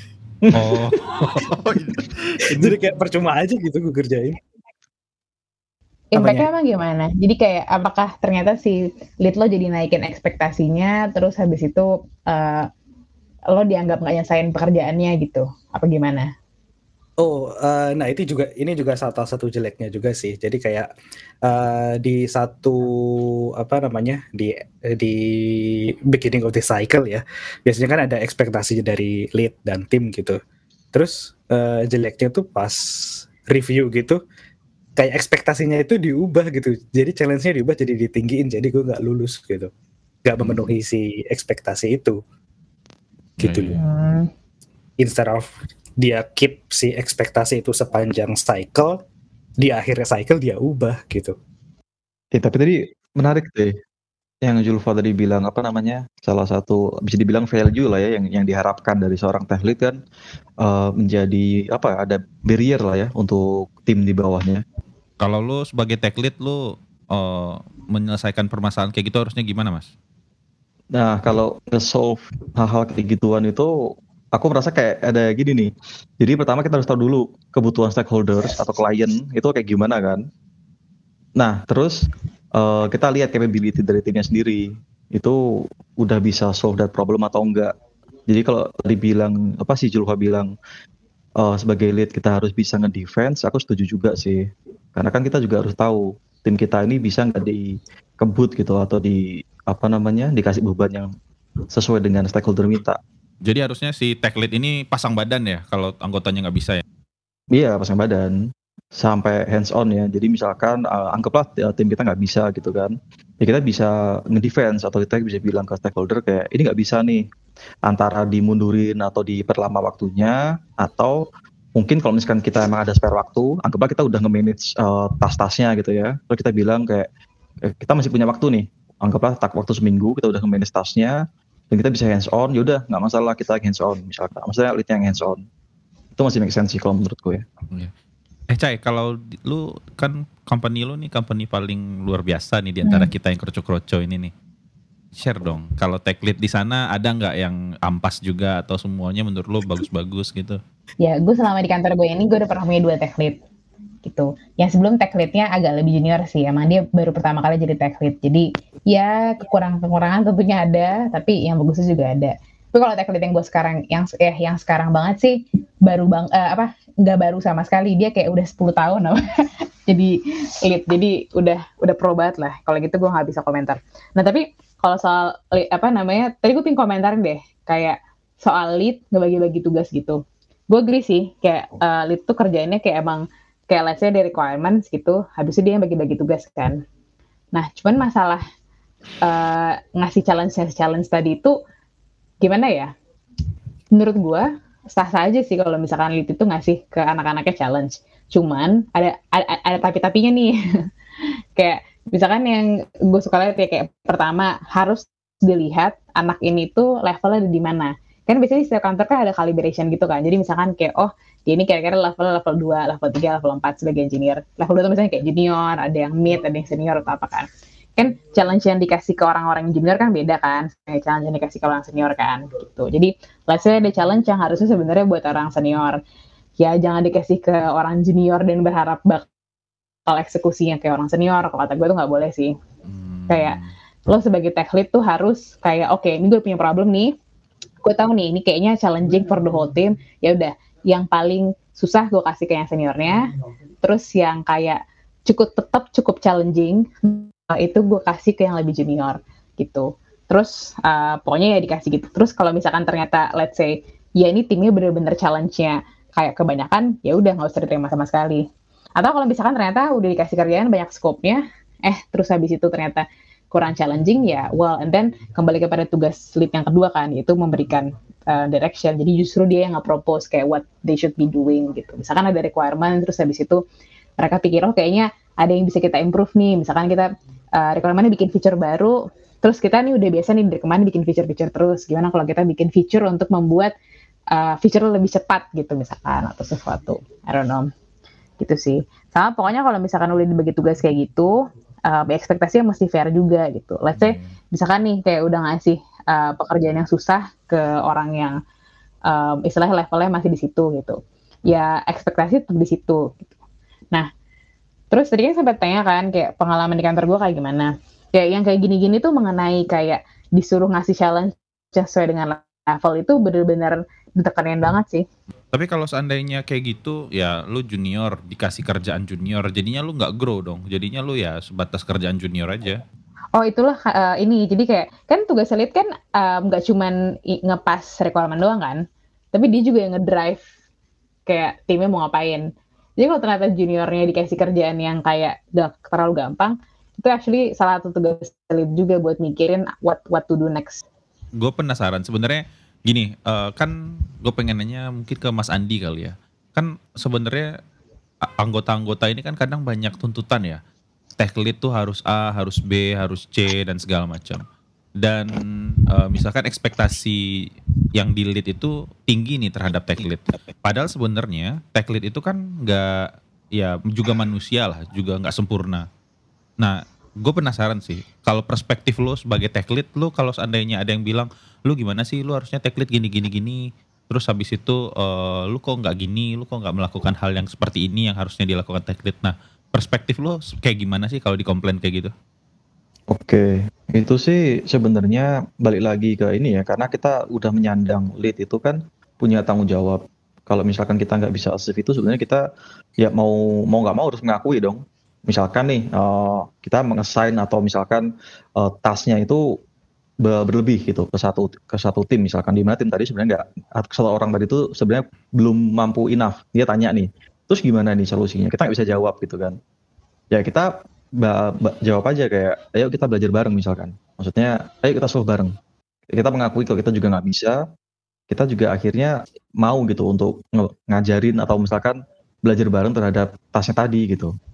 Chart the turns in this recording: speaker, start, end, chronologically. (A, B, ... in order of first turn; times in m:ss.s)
0:00.4-0:00.8 A
0:00.5-0:02.8 B
0:02.4-0:04.4 C
0:06.1-0:12.7 D
0:06.2-0:06.5 C
0:13.5-0:16.3 D
0:17.2-0:20.9 C
0:21.4-0:30.4 C
0:30.9-0:34.2 C
0:35.0-0:39.7 C
0:40.2-0:42.2 C
0:40.4-0:40.7 B
0:43.4-0:43.8 C
0:43.4-0:43.8 B
0:43.8-0:44.3 D
0:45.0-0:49.0 C
0:49.6-0:51.3 C
0:52.3-0:53.8 A
0:54.4-1:00.0 A
1:00.6-1:04.6 A
1:05.2-1:09.9 B
1:10.9-1:13.7 A
1:14.3-1:20.2 A
1:21.4-1:22.0 A
1:22.5-1:25.4 A
1:26.0-1:27.7 A
1:28.3-1:30.5 A
1:31.4-1:41.1 A
1:41.7-1:43.0 A
1:43.4-1:46.8 B
1:47.5-1:48.4 A
1:49.0-1:57.2 A
1:57.8-2:01.2 A
2:01.8-2:07.1 A
2:07.6-2:11.2 A
2:11.7-2:15.4 A
2:16.2-2:17.4 A
2:18.5-2:24.3 B
2:22.8-2:23.1 D
2:25.2-2:30.6 B
2:31.0-2:33.4 D
2:34.0-2:49.2 D
2:49.9-3:06.8 D
3:07.5-3:08.4 D
3:09.2-3:11.5 D
3:12.4-3:12.9 D
3:13.9-3:20.5 D
3:21.6-3:46.0 D
3:46.6-3:49.2 D
3:50.1-3:52.5 D
3:52.9-3:53.7 B
3:53.3-3:53.6 D
3:54.1-3:57.1 D
3:57.8-4:03.2 D
4:03.8-4:18.4 D
4:19.0-4:33.6 D
4:34.2-4:43.7 D
4:44.3-4:47.7 D
4:48.4-4:51.4 D
4:51.9-4:58.4 D
4:54.0-4:54.3 B
4:59.1-5:03.3 D
5:04.9-5:15.0 D
5:15.5-5:22.8 B
5:23.3-5:28.8 D
5:29.3-5:30.4 D
5:31.3-5:32.5 D
5:33.0-5:40.8 D
5:41.4-5:47.5 B
5:48.2-5:50.6 B
5:51.2-5:54.4 B
5:55.0-5:57.2 B
5:57.9-6:05.8 B
6:06.6-6:22.1 B
6:23.1-6:32.4 A
6:33.0-6:39.6 A
6:40.2-6:49.6 A
6:50.3-6:55.5 A
6:56.1-6:57.6 A
6:58.3-7:04.3 A